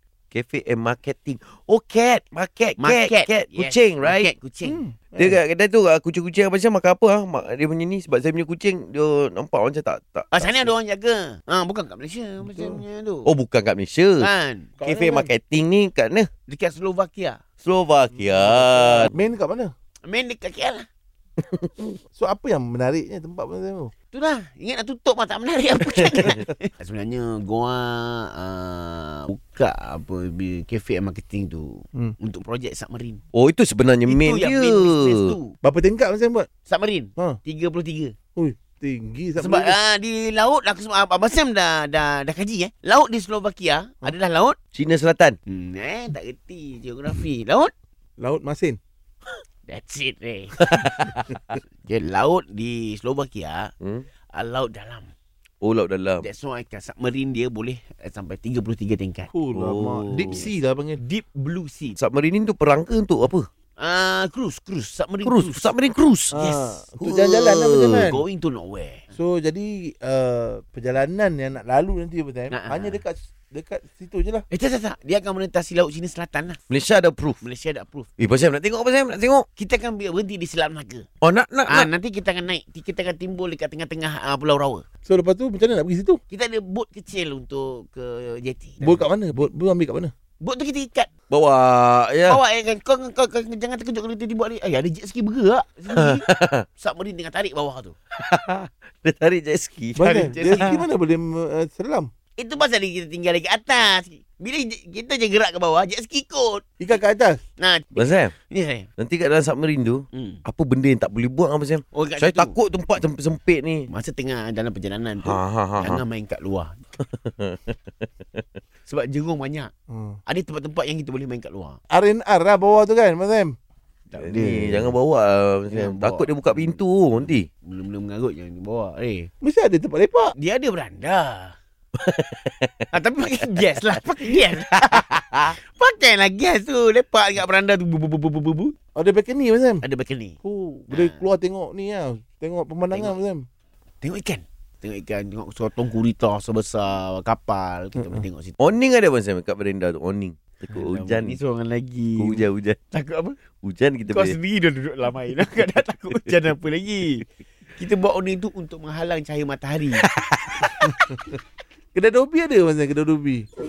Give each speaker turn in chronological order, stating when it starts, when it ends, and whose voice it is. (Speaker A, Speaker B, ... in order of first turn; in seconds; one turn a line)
Speaker A: 0.3-4.3
Speaker B: 2.8-4.8
Speaker C: 4.6-5.4
Speaker A: 5.2-10.7
Speaker B: 10.3-13.3
Speaker C: 12.4-12.8
Speaker A: 13.2-14.3
Speaker B: 14.2-14.8
Speaker C: 14.8-15.3
Speaker A: 14.8-16.3
Speaker B: 16.5-17.4
Speaker A: 17.6-19.1
Speaker C: 18.1-19.7
Speaker B: 20.1-20.9
Speaker A: 21.5-21.9
Speaker C: 22.1-23.9
Speaker B: 24.1-33.2
Speaker A: 25.9-26.4
Speaker A: 33.3-35.3
Speaker B: 34.1-35.5
Speaker C: 35.6-36.5
Speaker B: 36.7-38.1
Speaker C: 38.4-39.8
Speaker B: 39.4-44.6
Speaker A: 44.7-45.4
Speaker B: 45.5-47.7
Speaker C: 48.2-48.8
Speaker B: 49.7-50.6
Speaker A: 50.7-51.3
Speaker B: 51.8-53.7
Speaker A: 53.8-54.0
Speaker B: 54.3-55.1
Speaker A: 55.6-56.2
Speaker B: 56.2-59.3
Speaker C: 59.3-61.0
Speaker A: 59.5-60.5
Speaker B: 60.3-62.0
Speaker A: 62.0-63.5
Speaker B: 63.8-65.7
Speaker A: 65.2-66.3
Speaker C: 66.3-68.2
Speaker B: 66.3-66.8
Speaker A: 67.0-68.0
Speaker B: 68.0-69.1
Speaker C: 69.1-74.5
Speaker B: 72.5-73.0
Speaker B: 74.5-76.6
Speaker A: 76.7-77.4
Speaker B: 77.4-78.1
Speaker A: 78.2-79.5
Speaker B: 79.6-81.0
Speaker A: 81.2-81.9
Speaker B: 81.7-84.8
Speaker C: 85.0-86.2
Speaker B: 86.3-89.0
Speaker C: 88.8-90.1
Speaker B: 90.4-91.1
Speaker A: 91.3-92.4
Speaker B: 92.3-96.2
Speaker A: 96.0-96.6
Speaker B: 96.8-97.9
Speaker A: 98.2-100.8
Speaker C: 100.0-102.1
Speaker B: 100.3-100.8
Speaker B: 102.4-106.6
Speaker C: 106.8-107.4
Speaker B: 107.6-108.9
Speaker A: 108.0-108.3
Speaker A: 109.0-113.9
Speaker B: 110.1-110.4
Speaker B: 111.9-112.5
Speaker B: 113.9-116.8
Speaker A: 115.2-116.0
Speaker A: 117.0-117.8
Speaker B: 118.8-119.7
Speaker C: 119.9-120.2
Speaker B: 120.3-121.8
Speaker C: 121.9-123.5
Speaker B: 124.1-124.7
Speaker A: 124.2-127.5
Speaker C: 124.3-124.9
Speaker B: 125.7-126.8
Speaker B: 127.6-129.3
Speaker C: 129.4-130.3
Speaker B: 130.3-131.6
Speaker A: 132.0-132.8
Speaker B: 132.9-138.7
Speaker C: 138.9-139.8
Speaker B: 139.8-140.3
Speaker C: 140.4-143.4
Speaker B: 140.9-141.2
Speaker B: 144.0-148.6
Speaker A: 148.6-151.4
Speaker B: 150.7-153.4
Speaker A: 152.2-152.8
Speaker A: 153.6-154.3
Speaker B: 154.1-157.2
Speaker B: 157.8-160.0
Speaker A: 160.0-160.7
Speaker C: 160.8-161.3
Speaker C: 161.9-163.4